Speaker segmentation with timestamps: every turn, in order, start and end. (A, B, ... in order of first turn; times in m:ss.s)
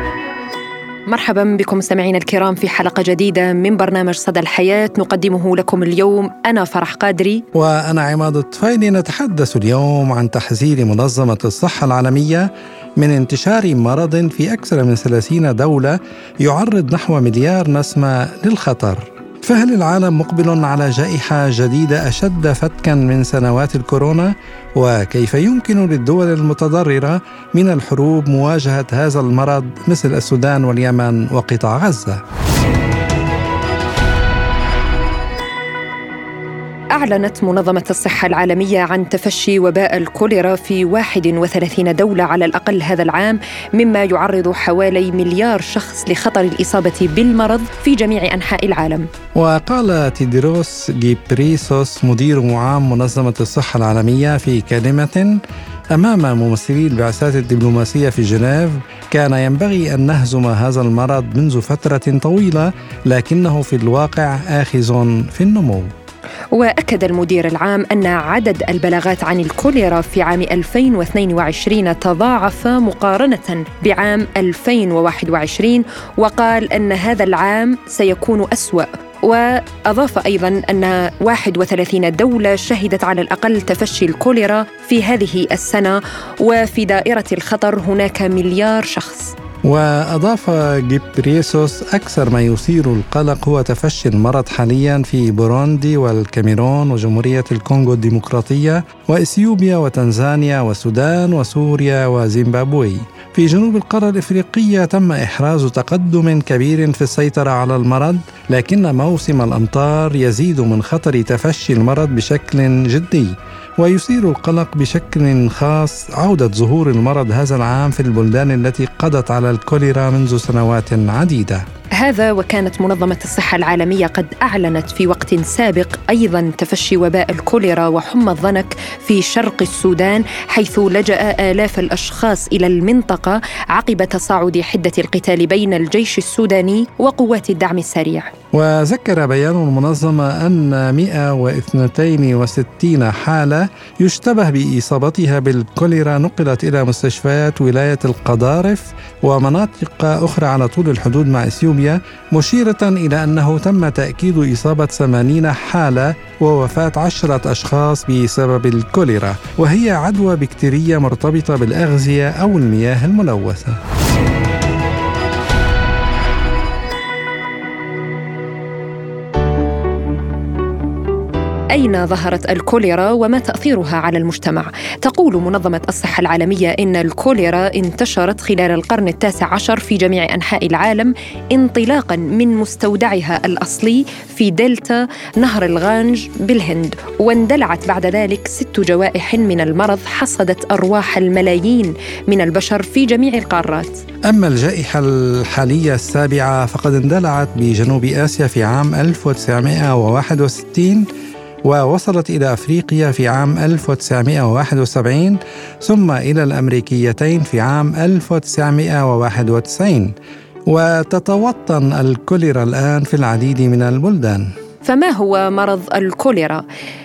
0:01.1-0:07.4 A
0:07.5-0:12.5 B
0:13.0-0:32.2 B
0:36.9-0:49.1 A
0:49.4-0:55.4 B
0:55.9-1:05.9 B
1:06.5-1:29.3 A
1:29.6-2:01.6 B
2:02.0-2:18.3 A
2:18.5-2:43.8 B
2:51.7-3:13.9 A
3:14.3-3:21.0 B
3:21.6-3:30.1 B
3:30.7-3:34.4 B
3:34.8-3:36.6 A